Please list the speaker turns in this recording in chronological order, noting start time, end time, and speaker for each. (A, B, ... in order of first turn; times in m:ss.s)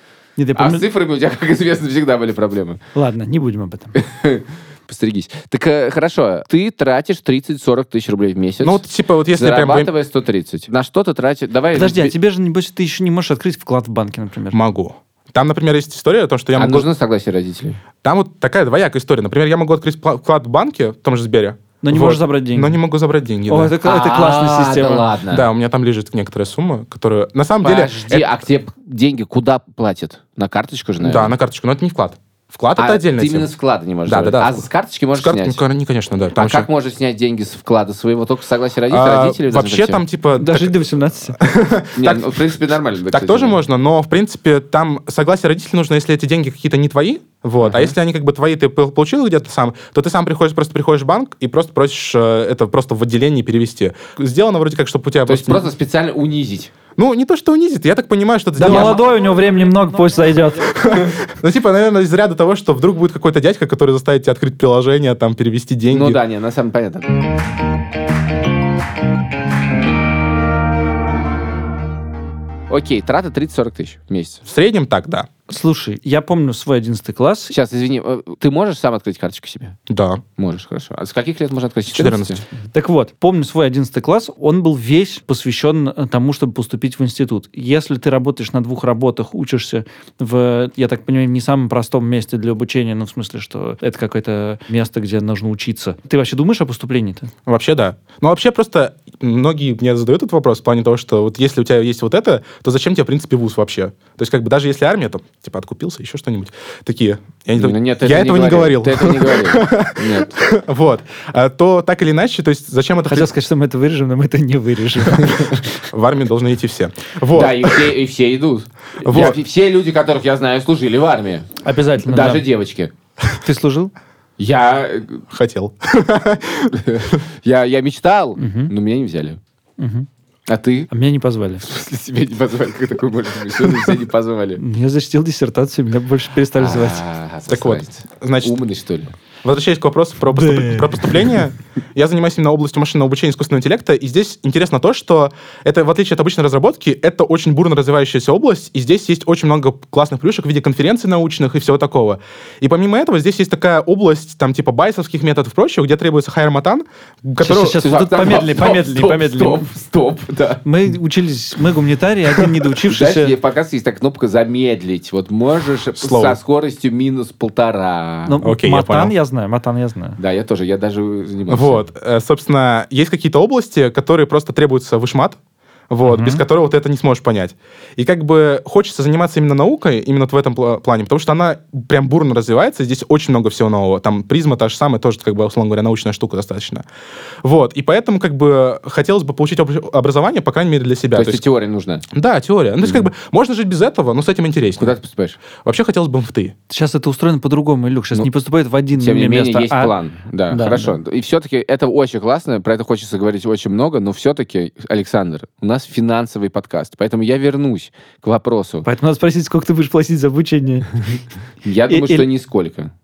0:00.4-0:00.8 A
0:00.5-0:02.8 B
0:02.9-0:04.0 A
0:04.0-0:08.8 B
0:08.6-0:09.9 C
0:09.3-0:12.1 B
0:11.7-0:14.6 A
0:14.5-0:16.9 C
0:16.5-0:17.8 B
0:18.0-0:23.7 C
0:21.8-0:22.8 A
0:23.5-0:25.1 A
0:23.8-0:25.5 B
0:25.3-0:28.3 C
0:27.6-0:31.3 B
0:31.0-0:33.5 C
0:32.8-0:35.6 B
0:34.1-0:36.7 C
0:36.3-0:40.0 B
0:38.9-0:40.8 C
0:40.4-0:41.4 A
0:41.4-0:42.4 C
0:41.9-0:43.6 B
0:43.1-0:55.7 C
0:47.6-0:47.9 B
0:55.2-0:56.7 B
0:57.0-0:59.0 C
0:58.6-1:00.8 A
0:58.6-0:59.0 B
1:00.8-1:06.2 C
1:05.9-1:07.1 B
1:12.7-1:14.4 B
1:14.5-1:15.3 C
1:15.5-1:17.5 A
1:17.5-1:19.8 B
1:19.9-1:20.2 C
1:20.4-1:22.4 B
1:21.9-1:22.4 C
1:22.7-1:37.3 A
1:37.4-1:53.3 C
1:47.6-1:50.4 B
1:53.1-1:55.7 A
1:55.9-1:57.9 C
1:57.3-2:01.5 B
1:59.0-1:59.4 C
2:01.6-2:02.4 A
2:02.0-2:02.9 B
2:03.4-2:03.9 A
2:04.4-2:05.2 B
2:05.3-2:07.1 C
2:06.7-2:09.4 B
2:08.4-2:08.7 A
2:09.8-2:10.1 A
2:10.5-2:10.9 B
2:10.9-2:11.6 A
2:11.6-2:14.6 B
2:14.6-2:17.0 A
2:16.6-2:19.1 B
2:17.5-2:18.6 C
2:19.4-2:37.8 C
2:20.3-2:21.0 A
2:37.4-2:39.7 A
2:37.6-2:40.6 B
2:40.6-2:43.3 A
2:42.8-2:48.4 B
2:46.0-2:46.4 C
2:48.3-2:50.2 A
2:48.4-2:49.1 C
2:50.2-2:51.8 B
2:51.5-2:55.4 C
2:55.9-3:06.8 C
2:56.0-2:56.4 A
3:07.4-3:11.4 C
3:11.1-3:12.1 B
3:12.1-3:14.9 C
3:12.8-3:13.1 B
3:14.8-3:15.4 B
3:15.6-3:16.5 C
3:16.7-3:19.9 A
3:18.9-3:28.8 B
3:20.5-3:20.9 A
3:28.8-3:31.0 A
3:31.6-3:32.9 B
3:31.9-3:32.3 A